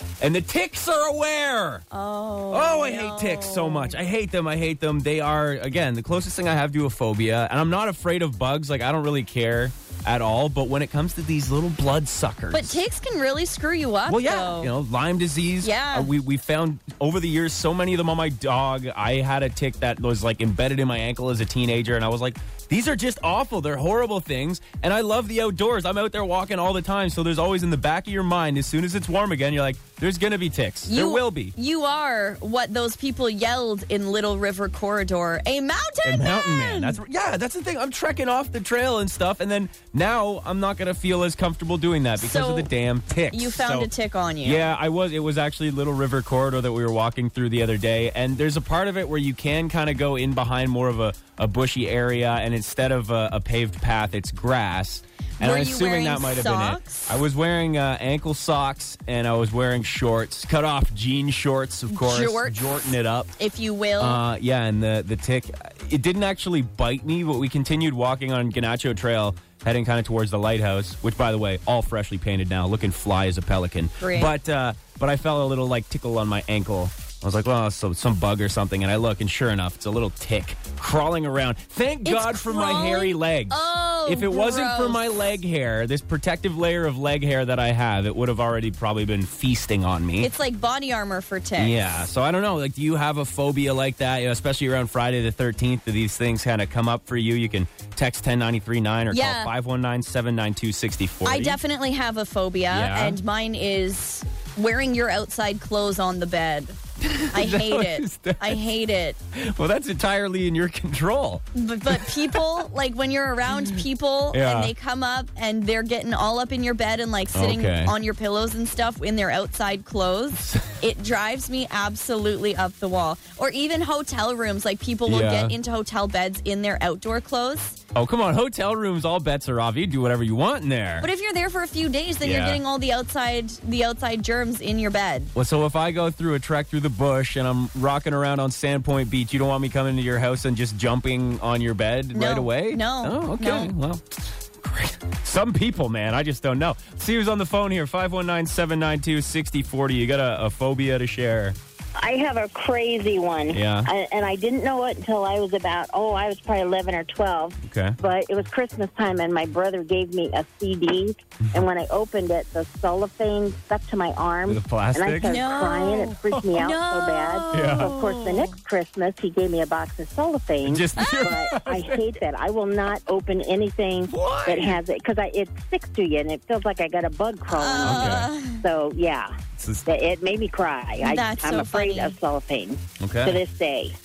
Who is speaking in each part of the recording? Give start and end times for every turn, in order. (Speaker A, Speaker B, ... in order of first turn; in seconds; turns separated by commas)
Speaker A: 0.2-1.9, Speaker B: 1.9-4.0, Speaker A: 2.5-12.8, Speaker B: 12.5-14.7, Speaker A: 14.1-31.5, Speaker B: 15.6-16.1, Speaker B: 30.9-37.0, Speaker A: 36.0-43.9, Speaker B: 42.2-42.7, Speaker B: 43.3-44.7, Speaker A: 44.4-63.3, Speaker B: 55.4-57.2, Speaker B: 61.9-62.9, Speaker B: 63.4-64.2, Speaker A: 64.0-90.3, Speaker B: 74.0-74.3, Speaker B: 82.0-85.0, Speaker B: 90.2-92.0, Speaker A: 91.6-101.6, Speaker B: 99.1-99.5, Speaker B: 101.2-106.8, Speaker A: 102.7-103.2, Speaker A: 107.0-108.6, Speaker B: 107.3-109.2, Speaker A: 109.3-112.4, Speaker B: 111.5-127.8, Speaker A: 114.3-114.7, Speaker A: 117.3-118.0, Speaker A: 120.4-120.7, Speaker A: 125.1-125.6, Speaker A: 127.9-131.1, Speaker B: 131.0-135.3, Speaker A: 132.2-132.6, Speaker A: 135.3-151.6, Speaker B: 142.1-143.7, Speaker C: 152.0-179.3, Speaker A: 153.5-153.9, Speaker A: 157.6-158.0, Speaker A: 164.5-166.5, Speaker B: 165.2-168.6, Speaker A: 167.5-167.9, Speaker A: 170.7-172.0, Speaker B: 171.0-171.3, Speaker A: 174.1-174.8, Speaker B: 177.5-178.6, Speaker A: 177.8-178.3, Speaker A: 179.6-179.9, Speaker C: 179.9-183.9, Speaker B: 181.0-182.1, Speaker A: 183.0-183.4